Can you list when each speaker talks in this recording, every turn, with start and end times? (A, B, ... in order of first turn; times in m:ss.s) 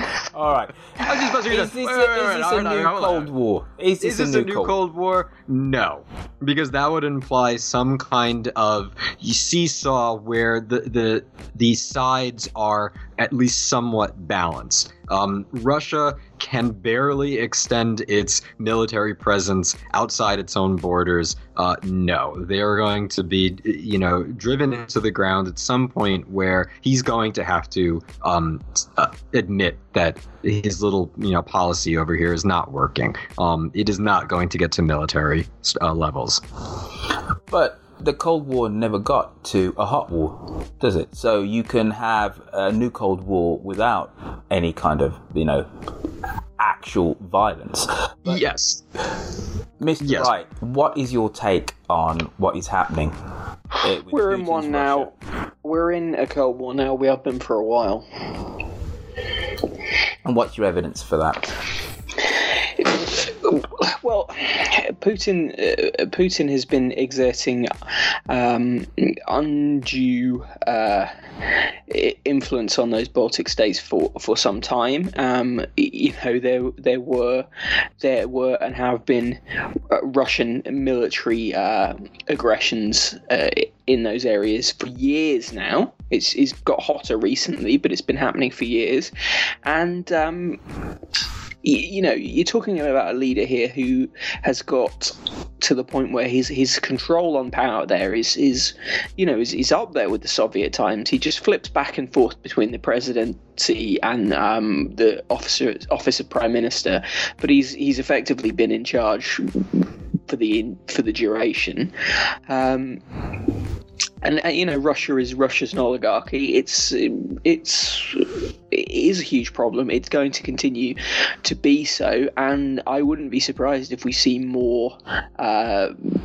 0:00.3-0:04.7 A
0:01.0-0:03.3 B
0:04.0-0:36.4 B
0:37.5-0:45.7 A
0:46.6-0:48.4 A
0:48.2-0:48.8 B
0:49.8-0:53.1 A
0:50.0-0:50.3 B
0:53.8-0:55.1 A
0:54.1-0:55.1 C
0:55.6-0:58.1 C
1:00.2-1:01.5 A
1:02.8-1:07.7 C
1:08.3-1:11.1 C
1:11.9-1:17.4 C
1:18.0-1:19.4 C
1:19.9-1:29.1 C
1:29.6-1:30.6 C
1:31.6-1:51.9 C
1:52.5-1:53.0 C
1:54.2-2:05.9 C